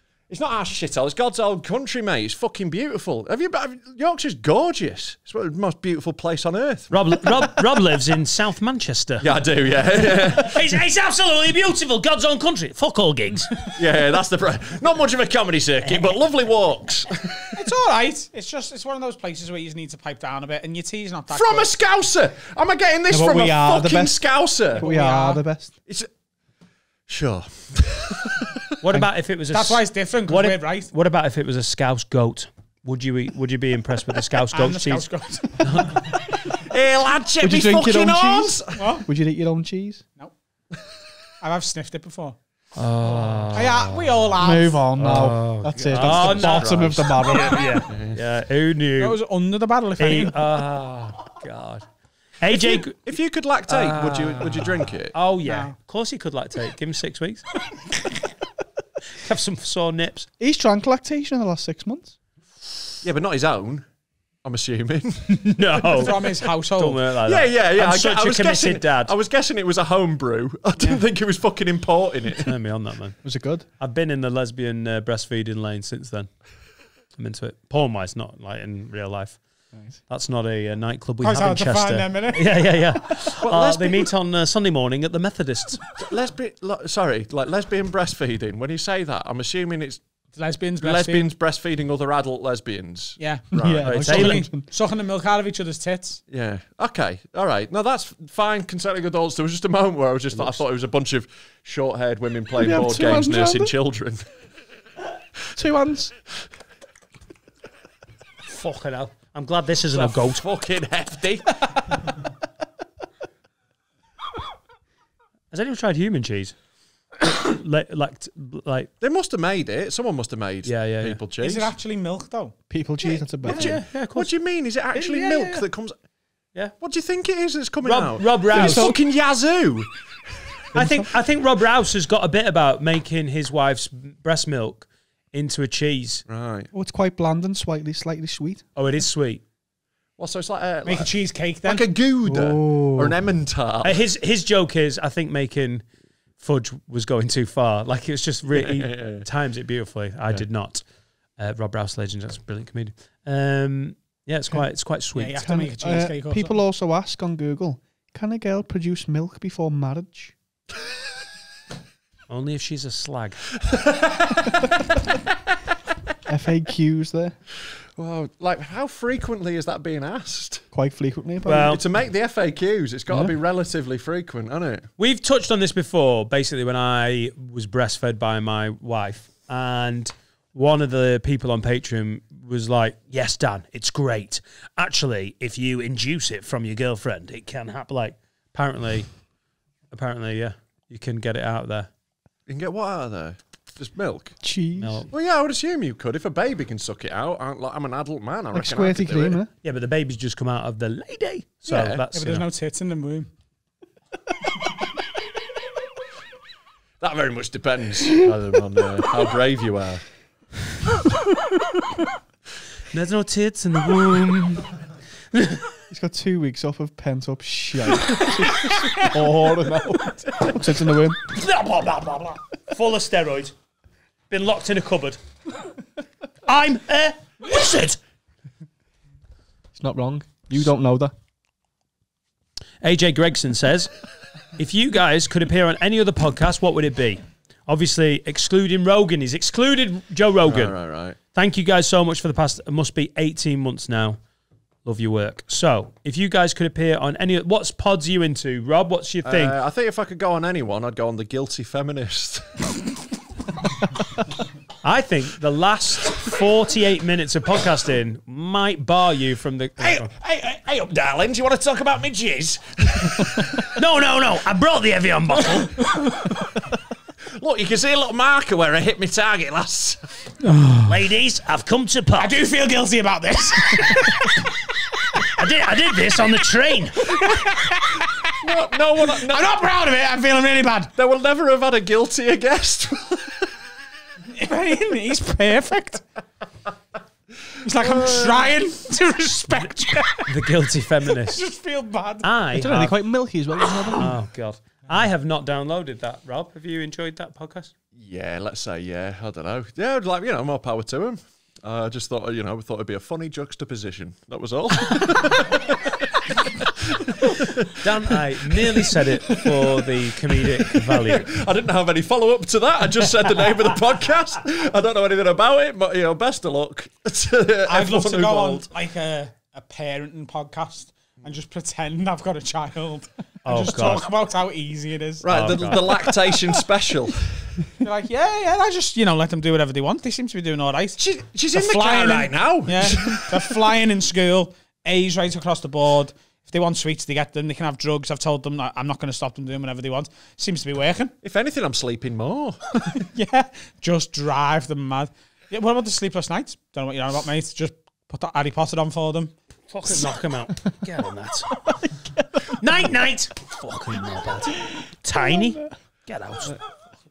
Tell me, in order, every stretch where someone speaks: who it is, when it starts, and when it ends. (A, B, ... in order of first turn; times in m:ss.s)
0:00.3-0:07.6 A
0:06.9-0:13.7 B
0:09.2-0:10.6 A
0:13.8-0:17.6 A
0:17.6-0:21.7 C
0:21.3-0:24.8 A
0:23.1-0:25.8 D
0:24.8-0:25.4 C
0:27.1-0:28.5 A
0:28.8-0:36.1 B
0:29.5-0:30.9 C
0:34.5-0:35.9 C
0:36.5-0:38.9 A
0:37.4-0:40.0 D
0:38.8-0:39.0 C
0:41.4-0:42.4 C
0:42.8-0:44.1 B
0:43.5-0:44.8 C
0:44.4-0:47.6 D
0:45.0-0:49.2 B
0:46.0-0:47.3 A
0:46.4-0:46.6 C
0:47.9-0:48.2 A
0:49.0-0:50.4 C
0:50.0-0:51.8 B
0:52.4-0:53.1 B
0:52.6-0:55.2 A
0:53.7-0:57.5 B
0:55.5-0:55.7 C
0:59.2-1:00.3 B
1:00.4-1:02.2 D
1:03.0-1:03.9 A
1:04.4-1:06.2 A
1:05.4-1:09.1 B
1:05.9-1:07.0 C
1:07.2-1:12.5 A
1:12.4-1:13.2 B
1:13.2-1:13.6 D
1:13.8-1:16.3 B
1:17.2-1:19.4 B
1:19.7-1:20.0 D
1:20.1-1:25.9 B
1:21.2-1:22.6 C
1:23.4-1:24.1 A
1:26.0-1:30.0 A
1:30.3-1:31.3 C
1:30.8-1:33.9 A
1:33.2-1:36.2 C
1:33.5-1:34.7 D
1:33.8-1:34.4 B
1:36.3-1:44.3 A
1:42.6-1:43.7 D
1:45.6-1:46.1 D
1:48.5-1:50.6 B
1:49.9-1:51.6 A
1:55.5-1:56.6 B
1:57.2-1:58.9 B
1:59.0-2:01.7 A
2:00.6-2:01.2 B
2:01.4-2:02.6 C
2:02.7-2:03.8 D
2:03.4-2:04.3 B
2:03.4-2:06.0 A
2:04.9-2:05.6 B
2:06.8-2:09.9 A
2:07.8-2:09.0 B
2:08.5-2:09.0 D
2:10.7-2:11.1 D
2:10.8-2:16.2 B
2:16.3-2:16.7 A
2:16.7-2:18.6 D
2:18.8-2:19.4 B
2:20.2-2:21.1 A
2:20.8-2:21.8 C
2:21.6-2:24.0 A
2:22.2-2:23.1 D
2:23.8-2:25.8 B
2:26.4-2:30.8 B
2:28.5-2:29.3 A
2:31.4-2:35.5 B
2:35.2-2:36.5 C
2:35.4-2:40.4 D
2:42.3-2:43.5 B
2:43.7-2:44.5 A
2:46.3-2:47.4 D
2:48.0-2:50.7 A
2:50.7-2:51.8 D
2:51.5-2:51.8 B
2:51.6-2:54.9 A
2:55.0-3:09.1 B
3:09.9-3:11.9 B
3:12.5-3:14.4 A
3:14.4-3:15.0 D
3:14.8-3:15.1 B
3:15.1-3:19.4 A
3:18.5-3:19.5 D
3:19.6-3:22.4 B
3:21.7-3:22.0 A
3:22.0-3:23.3 C
3:27.0-3:30.0 A
3:32.9-3:34.8 B
3:35.3-3:35.7 B
3:35.9-3:41.3 D
3:41.2-3:43.5 B
3:44.3-3:45.2 B
3:46.5-3:48.0 B
3:49.7-3:51.1 D
3:52.8-3:54.0 B
3:54.6-4:00.8 B
4:00.5-4:01.2 A
4:01.3-4:04.2 B
4:04.8-4:09.6 B
4:09.2-4:12.7 A
4:14.8-4:20.1 B
4:20.2-4:23.4 A
4:23.6-4:25.9 B
4:27.4-4:30.2 A
4:30.4-4:30.9 C
4:30.8-4:32.4 B
4:32.2-4:34.5 C
4:35.4-4:37.0 B
4:37.0-4:38.4 C
4:38.4-4:39.6 A
4:39.2-4:40.9 C
4:41.0-4:43.5 A
4:44.3-4:46.0 C
4:47.6-4:50.3 C
4:47.7-4:48.5 A
4:50.3-4:51.4 B
4:51.2-4:52.3 C
4:52.2-4:53.0 B
4:52.5-4:54.1 D
4:54.0-4:57.7 B
4:58.0-5:06.0 A
5:06.6-5:18.7 A
5:07.8-5:11.3 B
5:17.7-5:25.3 C
5:23.4-5:24.0 B
5:25.2-5:27.2 A
5:25.3-5:26.1 B
5:27.8-5:31.0 C
5:31.0-5:33.6 A
5:31.5-5:41.1 C
5:41.2-5:43.0 A
5:43.1-5:49.3 C
5:49.7-5:51.6 B
5:51.6-5:52.6 D
5:52.6-5:56.6 B
5:55.1-5:55.6 D